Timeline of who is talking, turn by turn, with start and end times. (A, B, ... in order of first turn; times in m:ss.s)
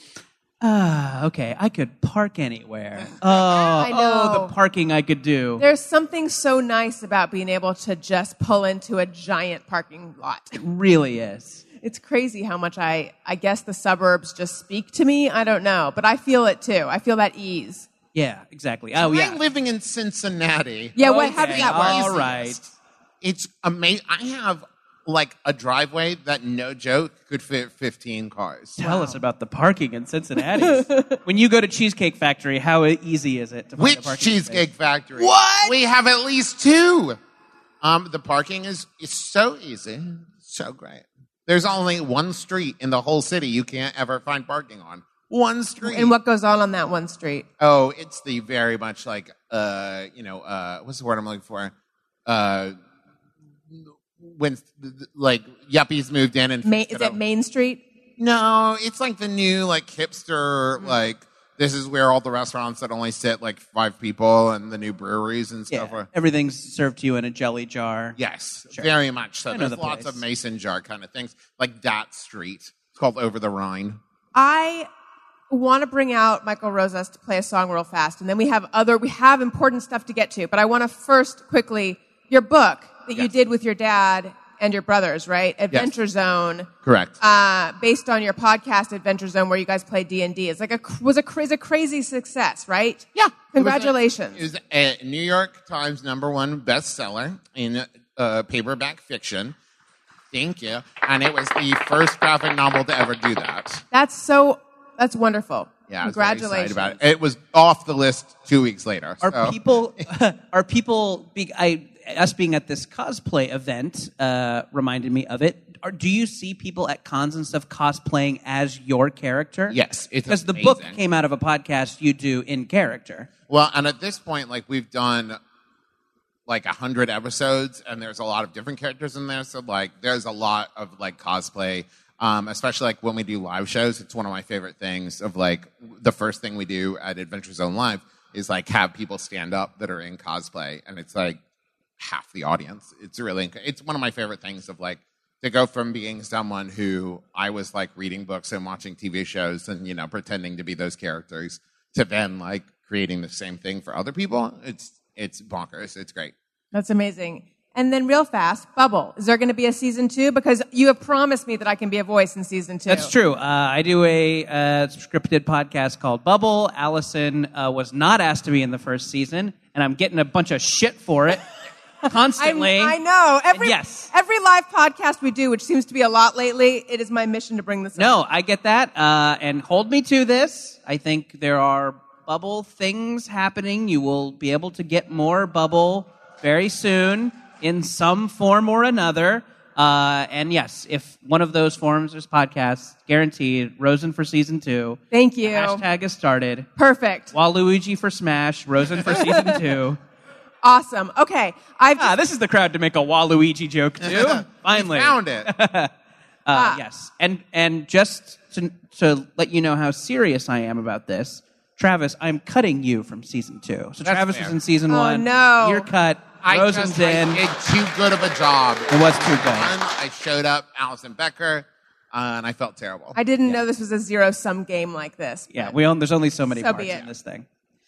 0:00.6-0:05.6 A
0:03.8-0:04.5 B
0:05.6-0:10.6 B
0:10.6-0:11.6 A
0:11.8-0:17.9 B
0:18.1-0:19.4 A
0:19.0-0:22.7 C
0:21.0-0:22.2 B
0:21.0-0:22.6 A
0:23.2-0:28.8 C
0:28.8-0:34.6 A
0:28.8-0:29.2 B
0:30.6-0:31.2 B
0:33.8-0:37.2 C
0:35.2-0:35.7 A
0:37.8-0:46.1 C
0:45.8-0:47.4 B
0:47.6-0:51.7 C
0:52.2-0:52.8 C
0:53.7-0:57.2 C
0:56.6-0:57.8 B
0:58.2-1:06.1 C
1:05.7-1:08.2 A
1:08.2-1:14.0 C
1:09.5-1:10.2 A
1:14.3-1:14.9 B
1:15.5-1:26.7 B
1:26.8-1:27.2 C
1:27.2-1:34.4 B
1:33.1-1:39.6 C
1:40.3-1:43.8 C
1:43.9-1:47.0 B
1:45.9-1:49.6 C
1:49.2-1:59.8 A
1:59.7-2:01.0 C
2:00.3-2:03.3 A
2:03.5-2:05.4 C
2:06.5-2:21.4 C
2:22.0-2:36.3 C
2:36.7-2:43.1 B
2:42.9-2:51.4 A
2:52.0-2:53.0 A
2:52.4-2:58.2 B
2:53.5-2:54.1 A
2:58.0-3:16.7 A
3:15.1-3:15.8 B
3:16.8-3:17.3 B
3:17.3-3:20.0 A
3:19.1-3:19.6 B
3:20.6-3:22.1 B
3:22.0-3:25.9 A
3:24.0-3:25.5 C
3:26.4-3:37.4 A
3:26.5-3:26.8 B
3:34.0-3:34.5 C
3:34.9-3:35.9 B
3:36.4-3:43.2 C
3:38.9-3:39.7 A
3:43.1-3:45.8 B
3:45.5-3:47.4 A
3:46.5-3:47.0 B